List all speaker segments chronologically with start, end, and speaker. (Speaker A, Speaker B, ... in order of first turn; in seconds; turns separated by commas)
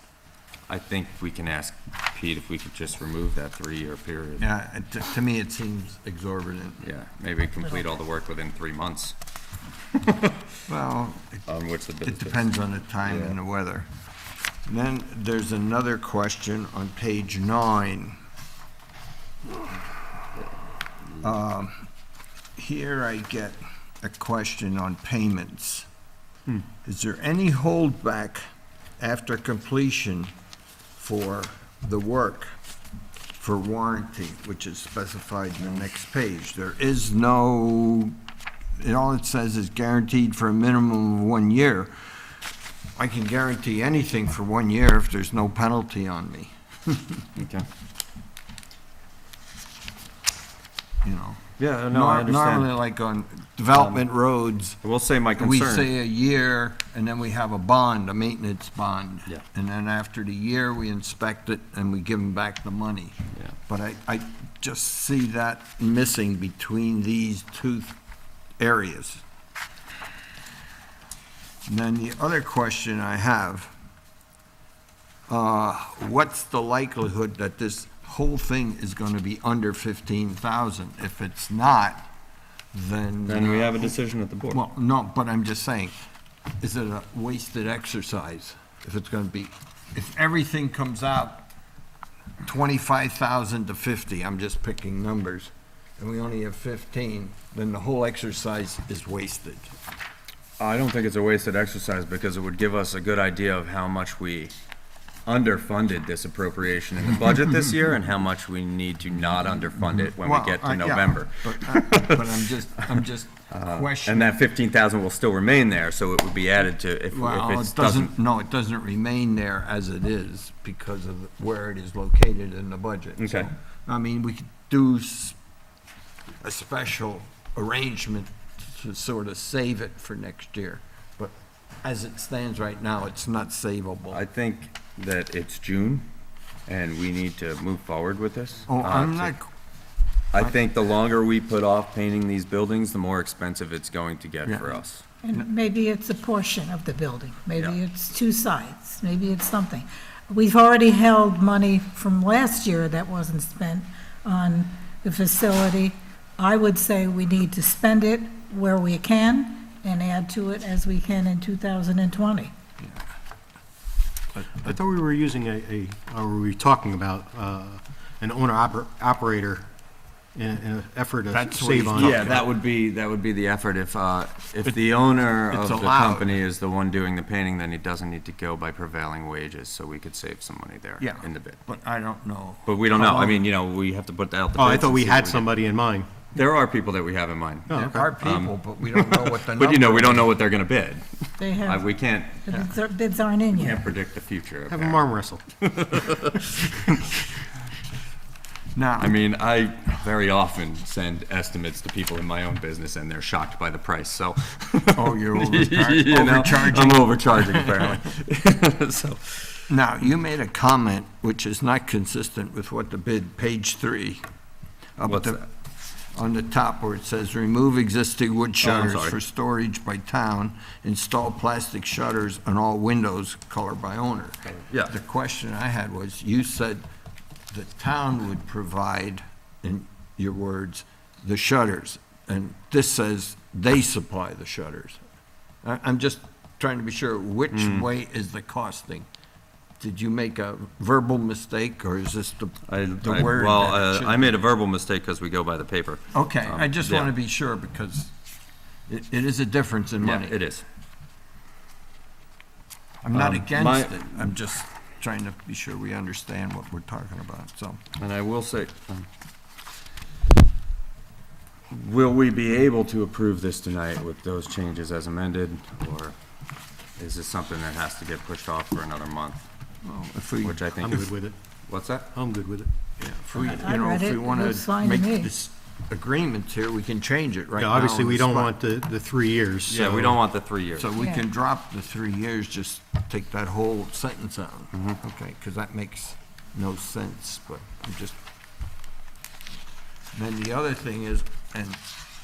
Speaker A: 0.7-4.5, Speaker B: 4.4-6.8, Speaker A: 6.8-9.2, Speaker A: 10.0-10.4, Speaker B: 10.7-11.4, Speaker A: 11.5-13.4, Speaker B: 12.0-13.9, Speaker B: 14.7-18.2, Speaker B: 21.2-21.9, Speaker B: 22.6-25.9, Speaker B: 26.9-28.4, Speaker B: 29.0-30.3, Speaker B: 31.0-32.5, Speaker B: 33.4-38.2, Speaker B: 38.8-41.9, Speaker B: 43.0-47.2, Speaker A: 47.4-47.7, Speaker B: 51.0-54.8, Speaker A: 51.6-52.7, Speaker A: 53.7-54.0, Speaker A: 54.8-55.9, Speaker B: 55.4-68.0, Speaker B: 68.6-69.2, Speaker B: 71.7-73.7, Speaker B: 75.3-82.1, Speaker B: 82.7-84.0, Speaker A: 83.3-84.6, Speaker B: 84.5-86.0, Speaker B: 86.6-91.5, Speaker B: 92.4-99.7, Speaker A: 100.6-104.6, Speaker A: 105.3-112.2, Speaker B: 110.2-114.4, Speaker A: 113.5-118.1, Speaker B: 117.1-125.4, Speaker A: 123.2-123.5, Speaker B: 126.4-134.2, Speaker A: 134.1-136.1, Speaker A: 136.7-139.3, Speaker B: 138.7-139.5, Speaker A: 140.3-145.0, Speaker C: 145.2-162.5, Speaker B: 162.8-163.1, Speaker B: 164.4-164.7, Speaker D: 164.6-169.7, Speaker D: 170.3-172.3, Speaker B: 171.3-172.5, Speaker A: 171.9-181.6, Speaker B: 175.5-176.3, Speaker B: 181.0-183.4, Speaker A: 182.7-185.5, Speaker D: 184.6-186.1, Speaker A: 186.3-192.7, Speaker D: 187.7-188.1, Speaker B: 187.7-190.4, Speaker C: 191.4-193.8, Speaker A: 193.5-195.0, Speaker D: 194.7-195.4, Speaker A: 195.6-197.0, Speaker B: 198.8-199.1, Speaker A: 199.0-209.6, Speaker B: 204.9-208.0, Speaker B: 209.7-214.2, Speaker B: 215.0-215.5, Speaker A: 215.1-215.4, Speaker B: 216.1-226.8, Speaker A: 218.6-219.2, Speaker A: 224.7-224.9, Speaker B: 227.5-235.0, Speaker B: 235.6-239.1, Speaker A: 237.5-237.9, Speaker B: 239.8-244.4, Speaker A: 242.7-247.1, Speaker B: 246.1-248.1, Speaker B: 248.9-250.3, Speaker A: 250.0-250.7, Speaker B: 253.0-257.8, Speaker A: 253.1-254.3, Speaker A: 258.0-259.1, Speaker A: 261.7-266.1, Speaker A: 267.0-269.4, Speaker B: 269.8-271.0, Speaker A: 270.4-271.1, Speaker D: 270.8-271.4, Speaker A: 271.7-272.1, Speaker D: 272.1-272.7, Speaker B: 273.0-278.6, Speaker C: 273.4-275.3, Speaker D: 277.6-280.2, Speaker A: 279.7-280.9, Speaker B: 280.8-288.2, Speaker C: 281.0-281.3, Speaker A: 284.7-285.0, Speaker B: 290.1-291.8